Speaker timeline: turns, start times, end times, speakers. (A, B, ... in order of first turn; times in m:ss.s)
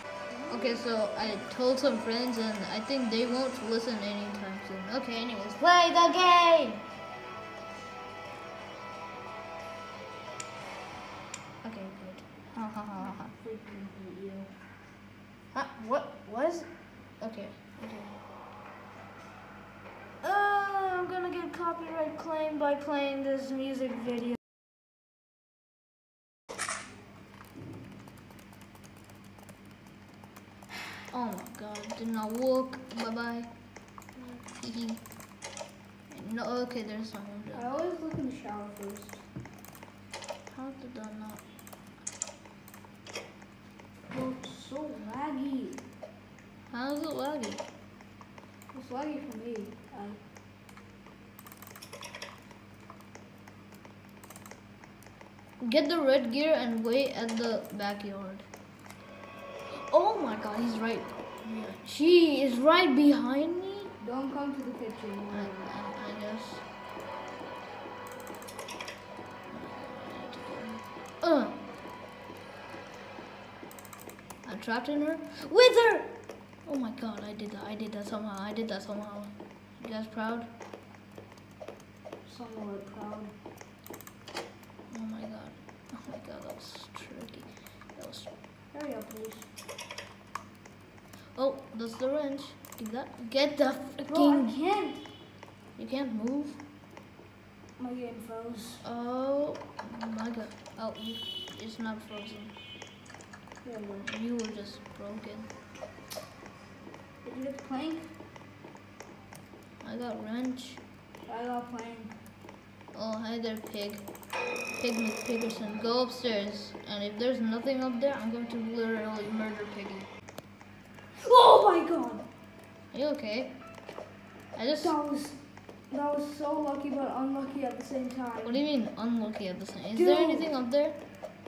0:00.3-0:01.4 A
0:00.5-0:06.8 B
0:11.6-0:13.3 B
0:13.0-0:14.5 A
0:15.5-0:18.2 B
0:20.2-0:24.4 B
0:31.1-0:33.5 B
0:34.5-0:35.0 B
0:36.1-0:37.7 B
0:37.5-0:39.2 A
0:40.5-0:41.4 B
0:44.1-0:45.8 A
0:46.7-0:47.6 B
0:48.7-0:50.2 A
0:55.6-0:58.5 B
0:59.7-1:03.9 B
1:04.0-1:05.7 A
1:05.3-1:06.6 B
1:09.5-1:11.6 B
1:14.4-1:20.5 B
1:22.2-1:23.3 A
1:24.9-1:28.3 B
1:28.7-1:29.5 A
1:31.4-1:34.5 B
1:34.1-1:35.1 A
1:35.8-1:36.6 B
1:37.8-1:38.8 A
1:38.8-1:42.5 B
1:43.6-1:44.1 A
1:44.0-1:45.5 B
1:47.2-1:48.1 A
1:49.8-1:50.8 B
1:51.2-1:52.2 A
1:52.9-1:54.1 B
1:54.7-2:00.1 B
2:01.2-2:02.2 A
2:02.9-2:03.6 B
2:04.6-2:05.0 B
2:04.8-2:08.6 A
2:08.4-2:11.0 B
2:09.9-2:10.5 A